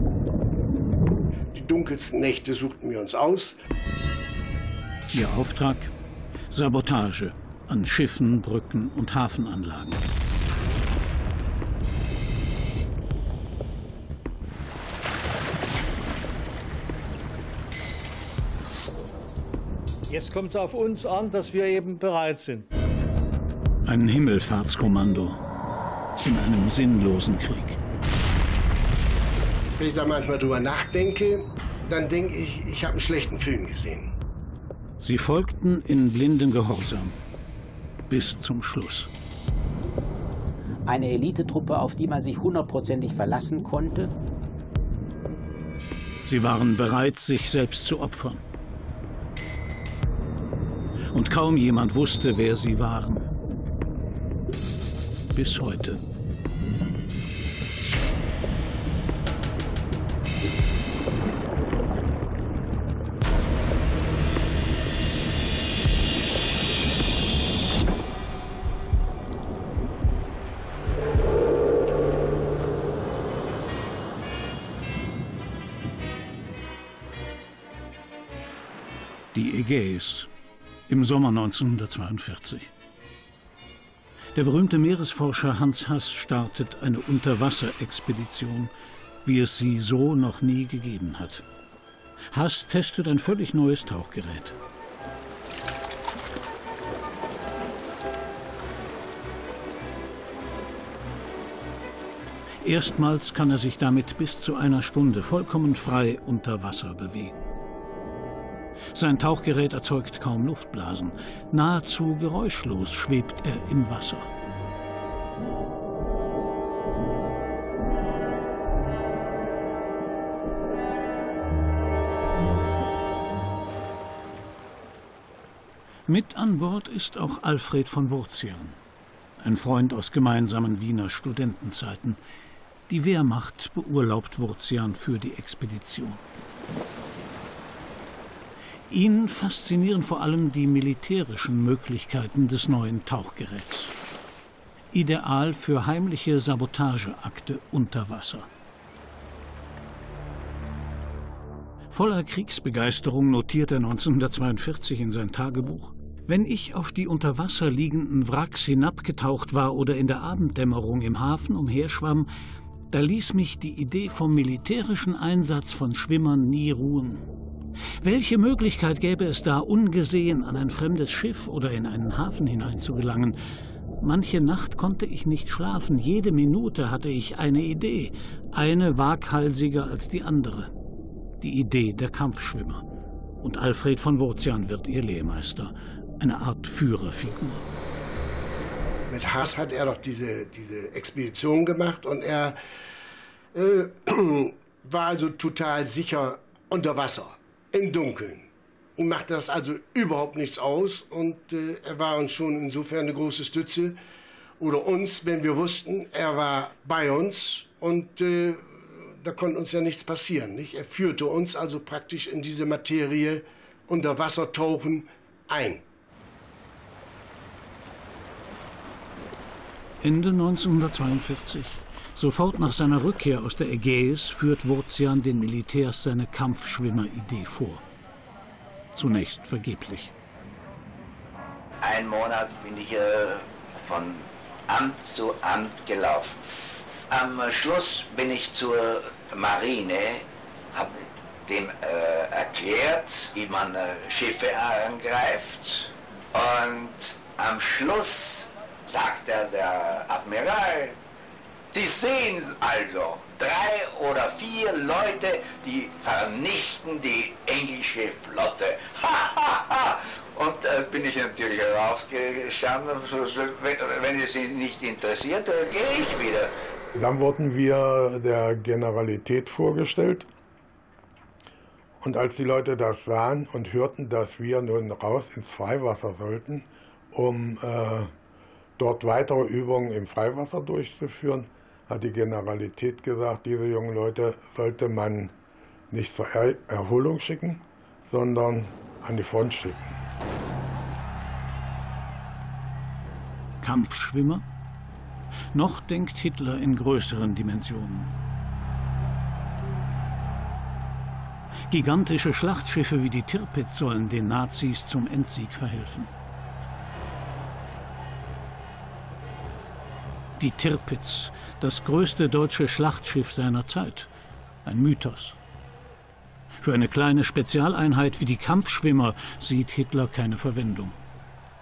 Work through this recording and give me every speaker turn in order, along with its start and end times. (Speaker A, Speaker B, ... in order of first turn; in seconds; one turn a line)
Speaker A: 1.5-3.6
Speaker B: 5.1-5.9
Speaker B: 6.5-10.0
Speaker C: 20.1-22.7
Speaker B: 23.9-25.4
Speaker B: 26.2-27.8
Speaker A: 29.8-34.1
Speaker B: 35.0-37.2
Speaker B: 38.1-39.1
Speaker D: 40.9-44.1
Speaker B: 46.3-48.4
Speaker B: 51.1-53.3
Speaker B: 55.3-56.0
Speaker B: 79.3-80.3
Speaker B: 80.9-82.7
Speaker B: 84.3-88.7
Speaker B: 89.2-91.4
Speaker B: 92.3-94.6
Speaker B: 102.6-107.5
Speaker B: 108.9-114.3
Speaker B: 126.1-128.8
Speaker B: 129.4-132.2
Speaker B: 132.9-136.2
Speaker B: 138.9-143.9
Speaker B: 144.9-148.5
Speaker B: 151.9-162.3
Speaker B: 162.9-167.2
Speaker B: 168.0-173.4
Speaker B: 174.0-180.7
Speaker B: 181.4-182.8
Speaker B: 183.4-187.6
Speaker A: 189.1-192.6
Speaker A: 193.5-204.0
Speaker A: 204.6-215.8
Speaker B: 220.0-227.8
Speaker B: 228.9-230.1
Speaker E: 231.8-251.0
Speaker E: 251.7-266.6
Speaker F: 267.0-270.3
Speaker F: 272.0-278.1
Speaker F: 278.8-285.3
Speaker F: 285.9-290.0
Speaker B: 293.6-294.4
Speaker B: 295.5-298.1
Speaker B: 301.7-306.1
Speaker B: 310.4-314.1
Speaker B: 314.6-315.4
Speaker B: 316.6-320.9